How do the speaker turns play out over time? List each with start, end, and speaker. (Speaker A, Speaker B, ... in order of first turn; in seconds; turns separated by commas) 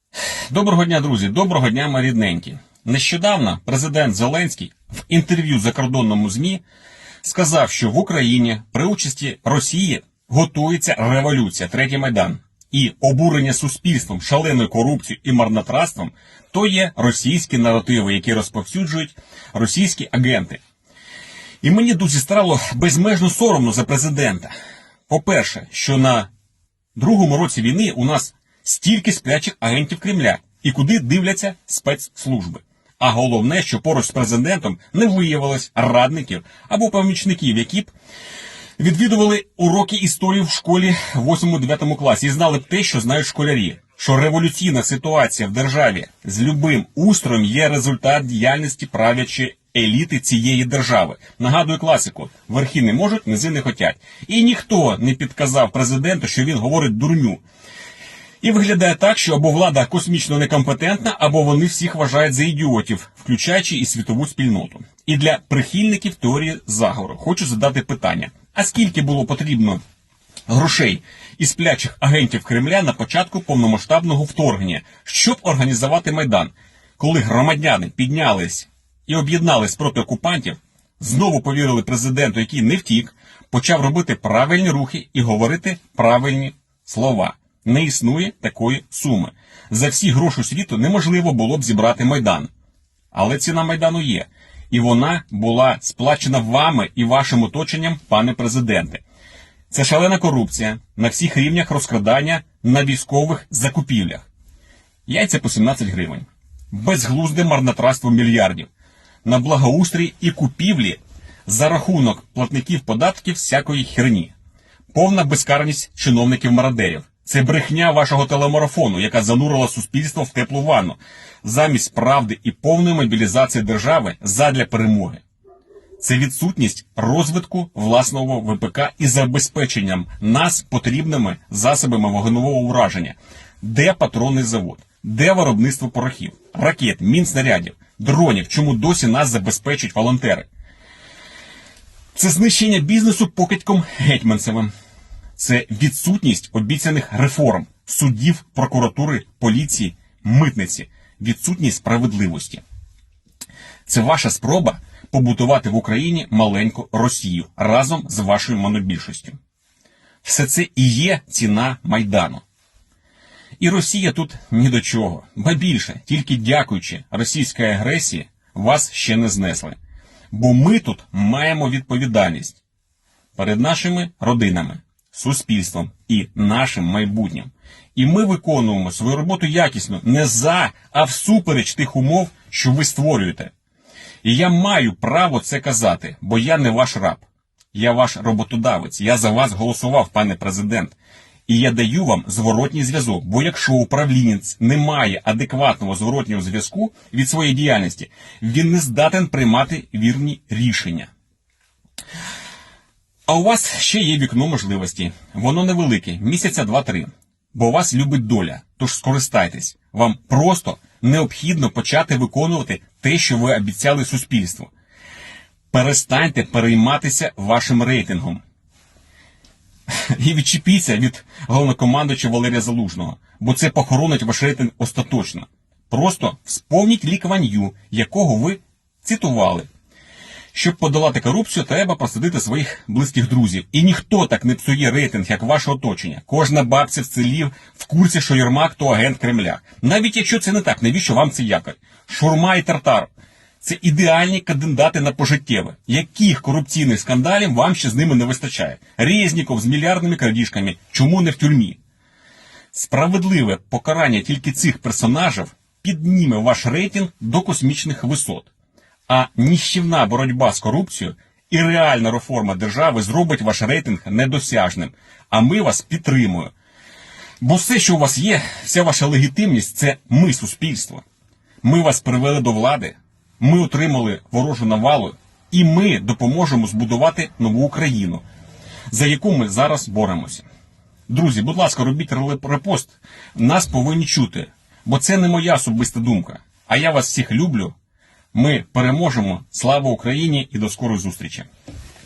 Speaker A: 0.5-6.6, Speaker A: 7.2-20.6, Speaker A: 21.6-24.5, Speaker A: 25.1-26.3, Speaker A: 26.9-37.9, Speaker A: 38.8-57.4, Speaker A: 58.4-69.8, Speaker A: 70.5-92.5, Speaker A: 93.1-99.0, Speaker A: 99.7-104.2, Speaker A: 105.1-108.7, Speaker A: 109.2-114.3, Speaker A: 114.9-125.2, Speaker A: 126.0-140.5, Speaker A: 142.1-144.7, Speaker A: 145.4-152.6, Speaker A: 153.9-159.4, Speaker A: 160.2-162.4, Speaker A: 163.6-169.8, Speaker A: 170.3-172.6, Speaker A: 173.3-183.5, Speaker A: 184.2-190.9, Speaker A: 191.5-201.1, Speaker A: 203.3-214.7, Speaker A: 215.7-218.4, Speaker A: 219.9-229.7, Speaker A: 230.5-243.1, Speaker A: 243.6-251.8, Speaker A: 252.7-258.5, Speaker A: 259.1-266.5, Speaker A: 267.4-271.0, Speaker A: 271.6-278.2, Speaker A: 278.9-280.4, Speaker A: 281.1-287.7, Speaker A: 288.3-291.5